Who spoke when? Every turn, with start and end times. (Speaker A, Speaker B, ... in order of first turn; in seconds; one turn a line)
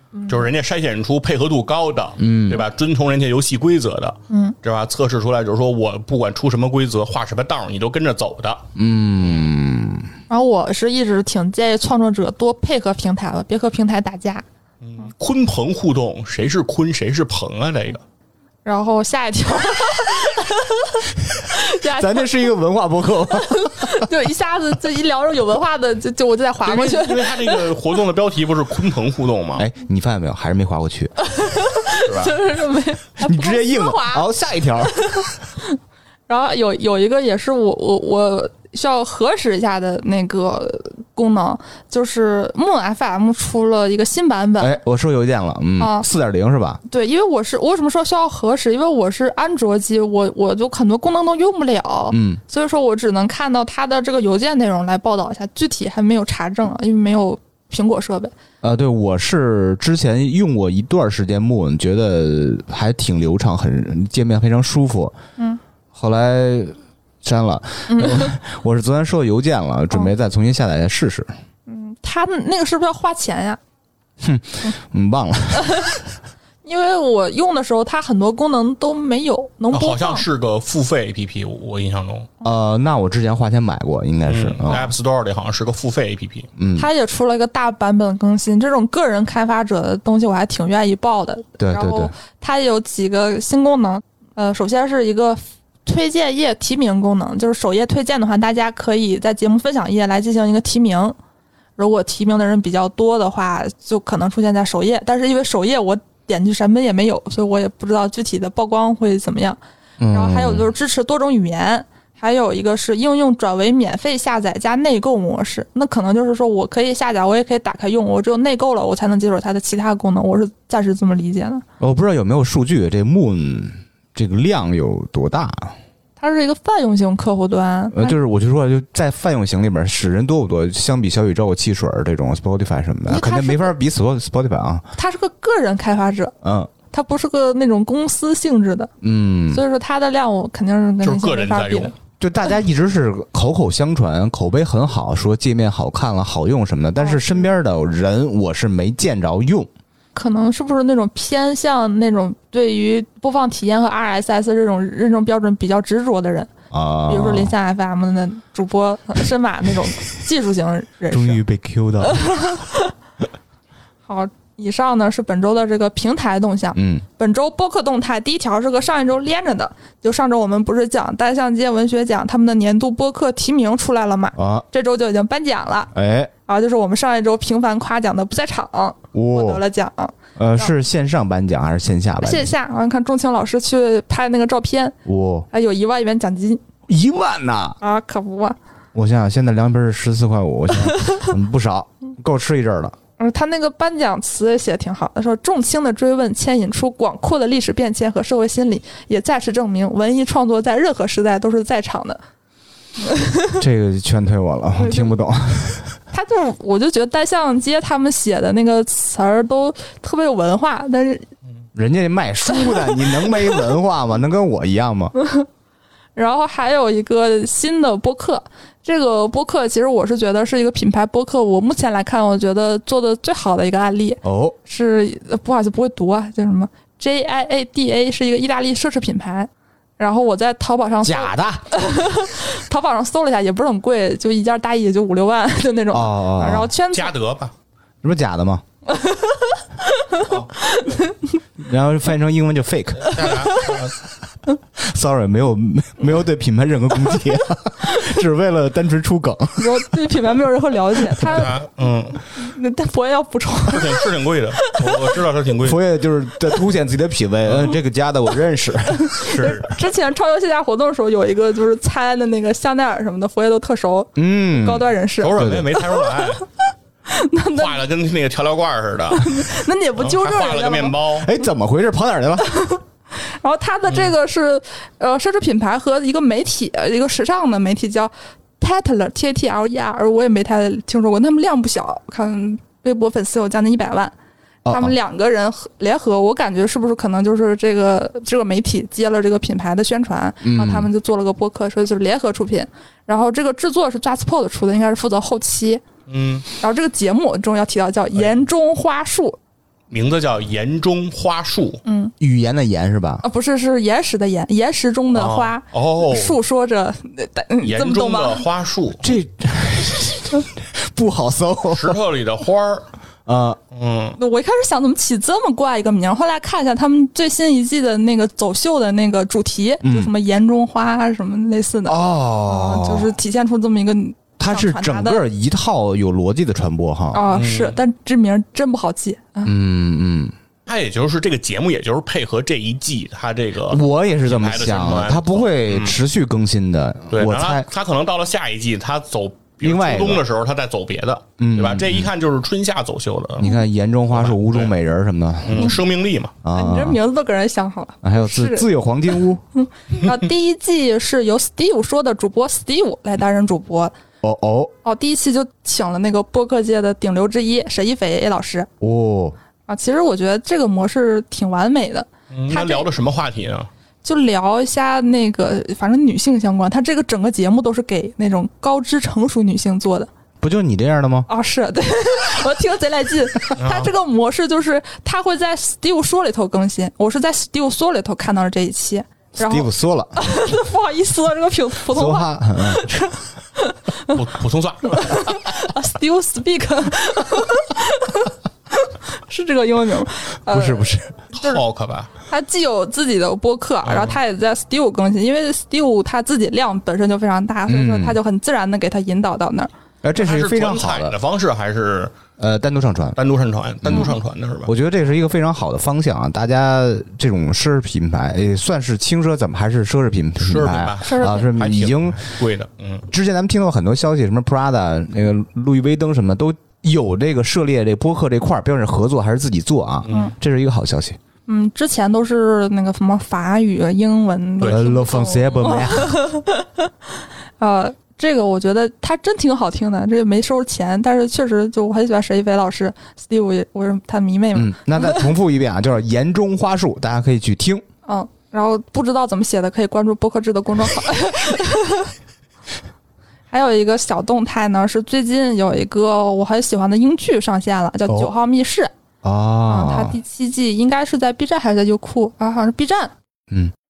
Speaker A: 0.1-0.5
Speaker B: 0.3-8.7
Speaker C: 2.2-2.6
Speaker A: 4.3-4.5
Speaker C: 8.8-10.1
Speaker A: 10.3-14.4
Speaker B: 14.8-18.0
Speaker A: 18.6-22.3
Speaker C: 21.9-24.1
Speaker A: 23.3-27.6
Speaker B: 26.6-29.6
Speaker C: 29.6-31.1
Speaker A: 31.2-34.2
Speaker B: 32.0-32.3
Speaker C: 33.2-35.3
Speaker A: 34.9-35.8
Speaker A: 36.3-44.8
Speaker C: 44.6-46.8
Speaker A: 45.8-46.0
Speaker A: 46.9-58.3
Speaker C: 52.1-52.4
Speaker C: 58.6-65.1
Speaker C: 65.9-71.3
Speaker A: 67.9-68.3
Speaker A: 71.7-73.6
Speaker C: 74.2-76.0
Speaker A: 76.6-80.2
Speaker B: 79.7-82.3
Speaker C: 82.4-84.9
Speaker B: 84.3-86.5
Speaker C: 86.6-86.8
Speaker A: 86.7-101.2
Speaker C: 91.6-92.1
Speaker A: 101.8-109.6
Speaker C: 110.0-110.7
Speaker A: 110.1-121.6
Speaker C: 121.8-125.7
Speaker A: 126.2-128.2
Speaker C: 127.9-134.9
Speaker A: 133.1-133.7
Speaker A: 134.9-136.3
Speaker C: 136.4-136.7
Speaker A: 136.9-138.9
Speaker C: 139.0-139.6
Speaker A: 139.5-141.9
Speaker B: 141.0-141.9
Speaker C: 142.2-149.7
Speaker A: 147.0-147.4
Speaker A: 150.1-156.5
Speaker C: 156.7-157.5
Speaker A: 157.1-161.4
Speaker C: 161.1-162.6
Speaker A: 162.0-162.9
Speaker A: 164.1-175.9
Speaker C: 166.8-167.0
Speaker C: 174.3-174.6
Speaker C: 175.9-176.3
Speaker A: 176.4-180.7
Speaker C: 179.1-179.6
Speaker C: 180.3-182.5
Speaker A: 182.2-184.9
Speaker C: 185.0-185.5
Speaker A: 185.5-186.6
Speaker C: 186.9-187.8
Speaker A: 187.8-188.6
Speaker C: 188.9-192.9
Speaker A: 193.2-202.2
Speaker A: 203.0-203.6
Speaker C: 203.6-205.9
Speaker A: 204.8-205.1
Speaker A: 206.1-211.3
Speaker C: 211.7-215.1
Speaker A: 212.6-213.2
Speaker A: 215.2-215.4
Speaker A: 216.2-237.1
Speaker C: 224.2-224.6
Speaker C: 231.0-232.0
Speaker C: 235.9-236.7
Speaker B: 236.9-237.5
Speaker C: 238.0-238.6
Speaker A: 238.9-241.2
Speaker C: 241.6-243.3
Speaker B: 243.0-244.0
Speaker A: 243.0-243.8
Speaker C: 244.8-249.7
Speaker A: 249.6-251.5
Speaker B: 251.2-252.2
Speaker A: 252.2-254.8
Speaker B: 253.7-255.8
Speaker C: 255.6-259.4
Speaker B: 257.4-257.7
Speaker A: 258.9-266.5
Speaker B: 259.2-259.7
Speaker C: 264.1-265.7
Speaker B: 265.2-266.4
Speaker A: 267.1-267.8
Speaker B: 267.6-271.3
Speaker A: 269.1-271.0
Speaker C: 271.2-272.5
Speaker A: 272.4-284.1
Speaker C: 284.6-284.9
Speaker A: 284.7-295.8
Speaker C: 290.4-290.9
Speaker B: 296.1-296.4
Speaker A: 296.6-299.4
Speaker B: 299.9-301.8
Speaker A: 301.8-302.1
Speaker C: 302.2-303.2
Speaker A: 303.2-308.4
Speaker B: 305.1-306.4
Speaker B: 307.6-309.0
Speaker C: 309.0-312.0
Speaker B: 311.7-312.9
Speaker C: 313.2-313.6
Speaker B: 313.7-314.2
Speaker A: 314.2-325.2
Speaker C: 319.8-320.1
Speaker C: 321.9-323.1
Speaker C: 324.4-327.2
Speaker A: 327.1-329.5
Speaker B: 327.3-327.8
Speaker C: 329.4-330.3
Speaker B: 330.6-336.0
Speaker C: 333.7-337.6
Speaker B: 337.1-343.5
Speaker C: 339.6-340.2
Speaker C: 341.4-342.1
Speaker C: 343.4-345.8
Speaker B: 344.1-344.7
Speaker B: 345.4-346.3
Speaker C: 346.4-347.0
Speaker A: 346.5-348.7
Speaker C: 348.0-349.4
Speaker A: 349.5-353.9
Speaker C: 354.2-354.7
Speaker A: 354.8-358.7
Speaker C: 358.8-359.4
Speaker A: 359.7-362.9
Speaker B: 362.3-363.7
Speaker A: 364.0-370.1
Speaker C: 370.4-371.3
Speaker A: 371.3-384.2
Speaker B: 373.6-373.9
Speaker C: 379.4-380.1
Speaker C: 381.9-382.9
Speaker B: 384.1-385.3
Speaker A: 384.8-391.6
Speaker C: 390.5-391.1
Speaker B: 391.3-392.1
Speaker A: 392.3-399.7
Speaker B: 393.8-394.2
Speaker C: 397.7-398.2
Speaker C: 400.0-401.1
Speaker B: 400.2-402.1
Speaker C: 402.4-403.2
Speaker B: 403.1-404.7
Speaker C: 403.8-412.3
Speaker B: 410.4-413.1
Speaker A: 411.0-411.5
Speaker C: 413.1-421.2
Speaker B: 420.0-420.3
Speaker A: 421.5-426.9
Speaker C: 424.6-426.2
Speaker A: 427.6-435.3
Speaker C: 434.5-437.8
Speaker A: 438.1-442.1
Speaker A: 443.5-448.9
Speaker C: 449.2-450.1
Speaker A: 449.7-453.1